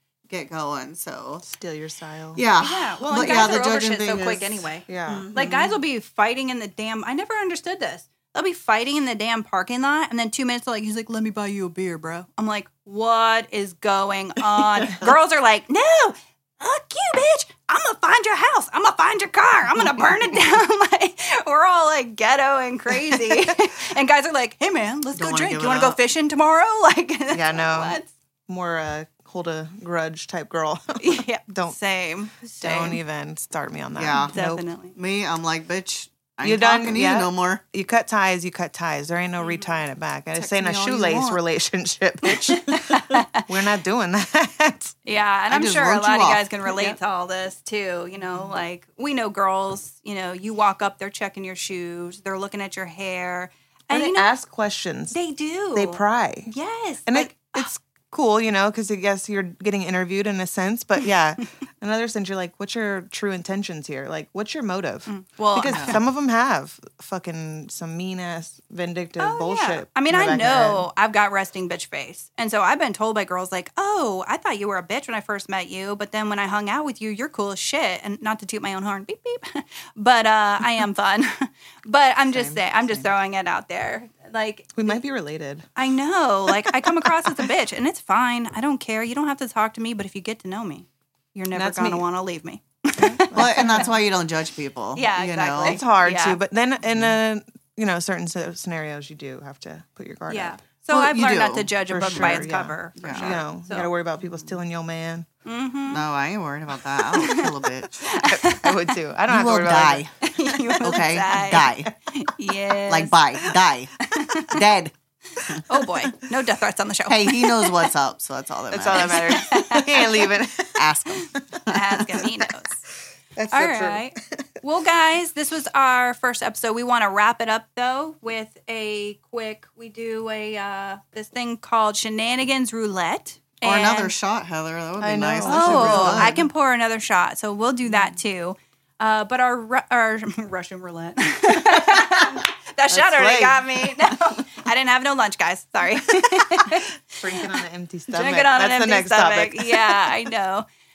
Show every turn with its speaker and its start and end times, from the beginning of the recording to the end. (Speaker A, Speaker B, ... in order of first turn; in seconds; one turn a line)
Speaker A: 0.3-1.4
Speaker B: 1.4-2.4
Speaker A: 2.3-5.8
Speaker C: 2.6-28.1
Speaker B: 4.9-5.3
Speaker B: 19.9-20.4
Speaker B: 23.1-23.4
Speaker A: 25.1-26.0
Speaker B: 27.3-31.8
Speaker C: 31.0-33.0
Speaker B: 32.6-34.6
Speaker A: 33.9-34.4
Speaker C: 34.3-34.9
Speaker A: 34.9-37.6
Speaker B: 36.4-44.9
Speaker C: 39.4-39.7
Speaker A: 40.3-41.4
Speaker C: 42.3-43.4
Speaker C: 45.0-54.3
Speaker A: 45.5-46.5
Speaker B: 46.7-47.0
Speaker B: 53.9-55.2
Speaker C: 55.1-57.7
Speaker B: 55.7-56.5
Speaker B: 57.1-70.9
Speaker C: 65.1-66.0
Speaker A: 65.7-66.0
Speaker C: 69.2-85.0
Speaker B: 82.3-83.1
Speaker B: 84.7-85.7
Speaker C: 85.8-93.8
Speaker B: 86.6-87.5
Speaker B: 91.5-92.0
Speaker B: 93.0-93.9
Speaker A: 93.3-95.8
Speaker C: 94.9-96.4
Speaker B: 95.6-100.6
Speaker C: 100.3-103.9
Speaker A: 100.9-103.4
Speaker B: 101.9-105.3
Speaker C: 105.4-106.1
Speaker A: 105.9-107.9
Speaker C: 107.2-108.9
Speaker B: 108.2-110.0
Speaker A: 109.3-110.2
Speaker C: 110.2-114.6
Speaker A: 110.8-111.9
Speaker A: 112.9-114.9
Speaker C: 115.7-117.9
Speaker A: 117.1-119.3
Speaker B: 118.7-120.9
Speaker C: 118.9-120.2
Speaker A: 120.8-122.2
Speaker C: 121.7-122.8
Speaker B: 123.3-124.1
Speaker C: 123.5-134.1
Speaker A: 133.6-136.4
Speaker B: 135.0-136.5
Speaker C: 135.4-147.5
Speaker B: 137.9-138.1
Speaker B: 142.9-143.8
Speaker B: 146.1-150.1
Speaker C: 148.1-150.7